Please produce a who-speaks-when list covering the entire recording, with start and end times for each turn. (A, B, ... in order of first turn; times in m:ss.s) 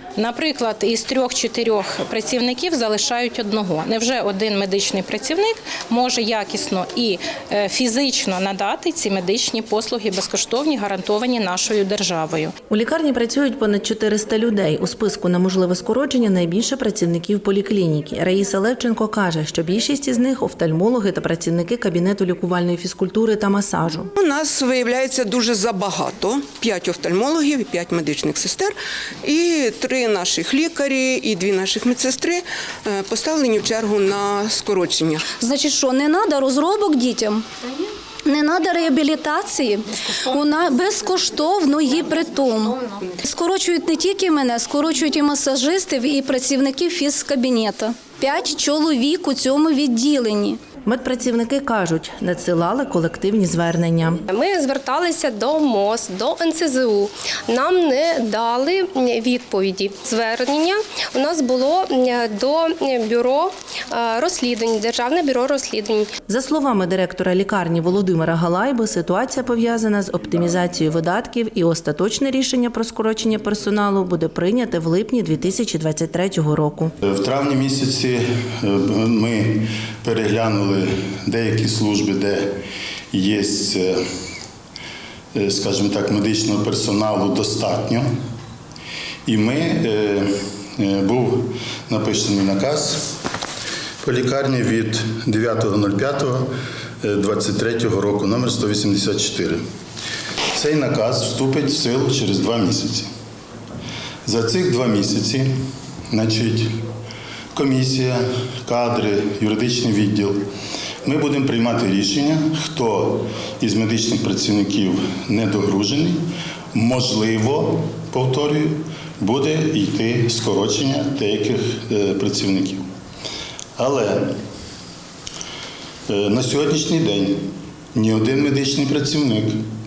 0:00.2-0:12.5 A
0:12.7-0:24.1 B
0:24.2-0:35.2 C
0:35.4-0:37.4 D
0:38.2-0:50.6 D
0:50.8-0:54.2 B
0:54.3-1:06.1 E
1:06.3-1:16.9 B
1:17.0-1:22.6 F
1:23.1-1:24.0 F
1:25.3-1:28.0 F
1:29.2-1:33.0 F
1:34.0-1:36.5 F
1:37.0-1:39.6 F
1:40.5-1:43.1 F
1:44.2-1:45.5 F
1:46.1-1:46.7 F
1:47.5-1:50.4 F
1:51.0-1:56.2 F
1:56.7-2:02.8 F
2:03.8-2:04.4 F
2:06.1-2:09.6 F